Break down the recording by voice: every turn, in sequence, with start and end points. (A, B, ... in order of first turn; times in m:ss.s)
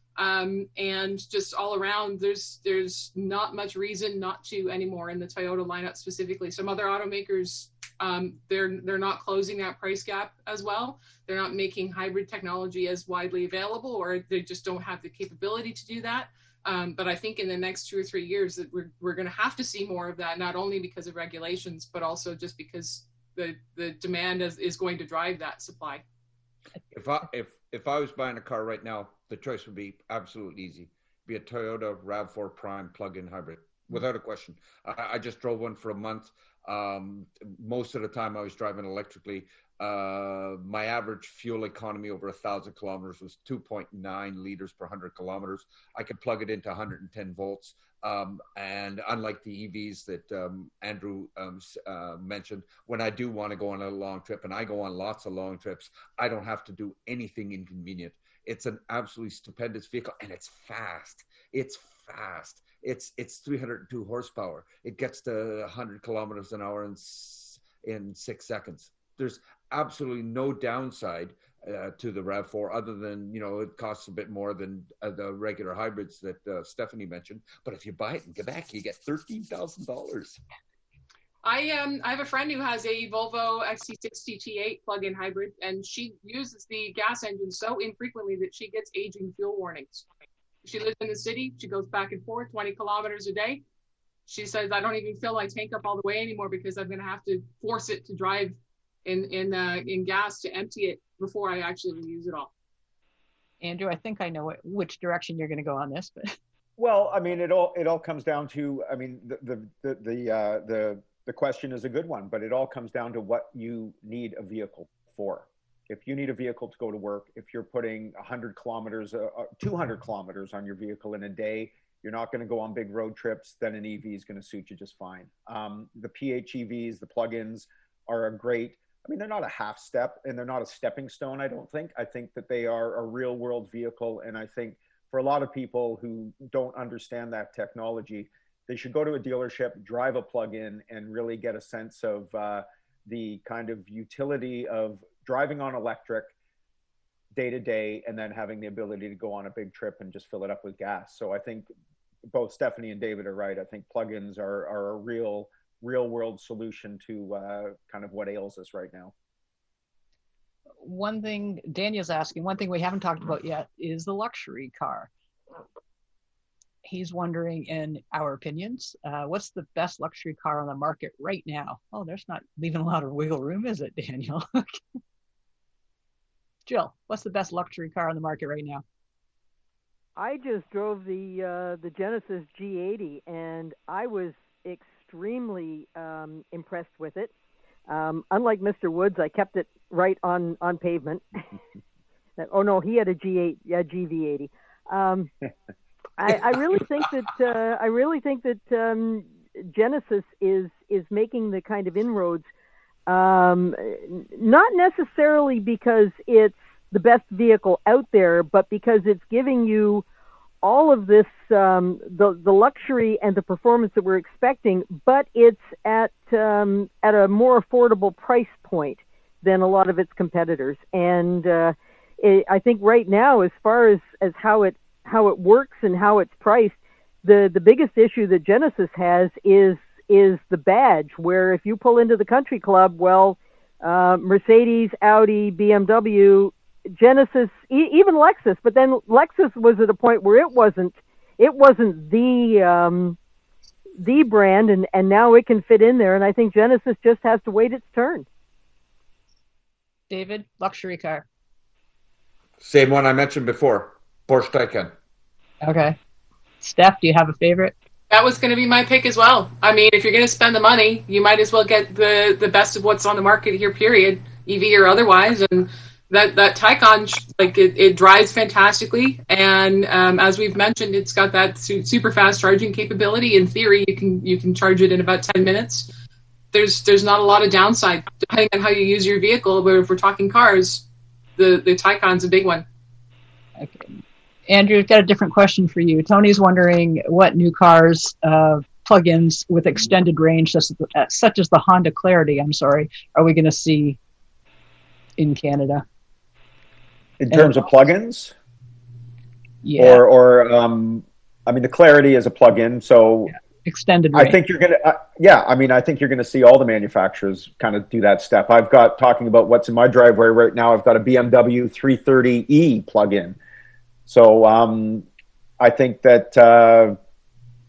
0:00.2-0:26.0 A
0:26.9-1:20.4 B
1:21.4-1:30.0 A
1:30.6-1:33.6 A
1:34.3-1:42.5 A
1:43.6-1:46.4 C
1:46.8-2:26.3 D
2:27.3-2:31.7 D
2:32.3-2:39.1 D
2:40.8-2:45.1 C
2:46.8-2:54.8 C
2:56.6-2:58.8 C
3:00.2-3:07.3 E
3:07.9-3:11.4 E
3:12.4-3:15.3 E
3:16.2-3:22.5 E
3:23.1-3:30.0 E
3:30.6-4:03.2 E
4:04.0-4:08.2 E
4:10.1-4:11.2 C
4:12.6-4:14.9 B
4:15.6-4:16.0 C
4:16.6-4:17.7 C
4:18.1-4:35.9 A
4:36.5-4:40.8 A
4:41.4-4:42.6 A
4:43.6-4:54.0 C
4:55.2-4:55.8 C
4:57.2-4:58.3 D
4:59.6-5:00.0 C
4:59.8-5:03.3 D
5:03.6-5:04.4 C
5:04.1-5:13.4 D
5:14.1-5:15.0 D
5:15.6-5:17.0 D